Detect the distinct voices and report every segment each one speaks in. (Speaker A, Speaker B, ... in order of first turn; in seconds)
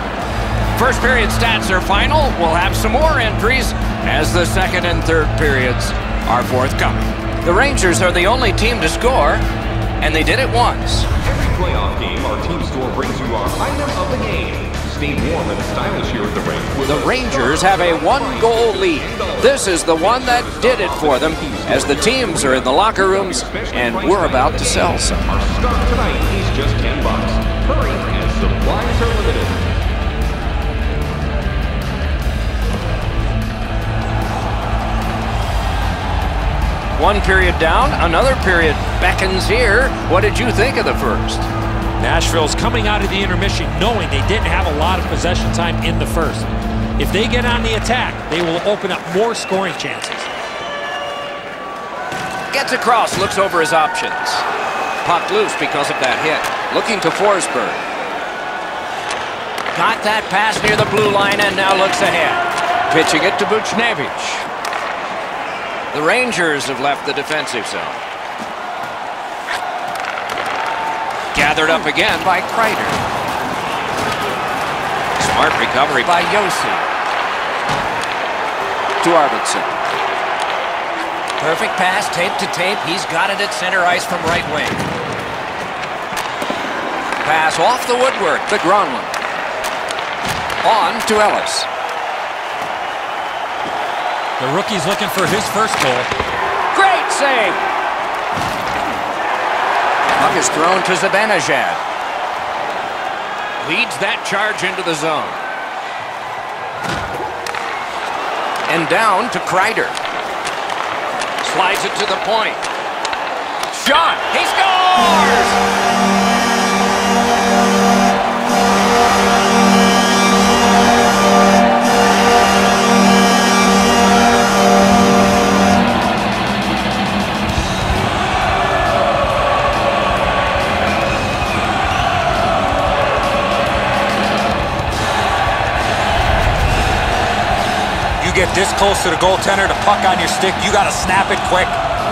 Speaker A: 0.8-9.4, 10.0-11.1, 16.8-25.3, 37.0-41.5, 52.5-54.5, 55.0-57.8, 59.7-64.5, 65.9-68.0, 71.3-73.0, 75.2-76.9, 79.0-79.8, 81.4-84.8, 87.2-89.1, 90.6-91.7, 96.7-97.6, 100.2-101.8, 103.6-105.4, 108.7-110.0, 111.4-112.6, 113.7-115.6
Speaker B: 11.2-29.7
Speaker C: 42.0-50.3, 94.4-96.1, 138.2-141.8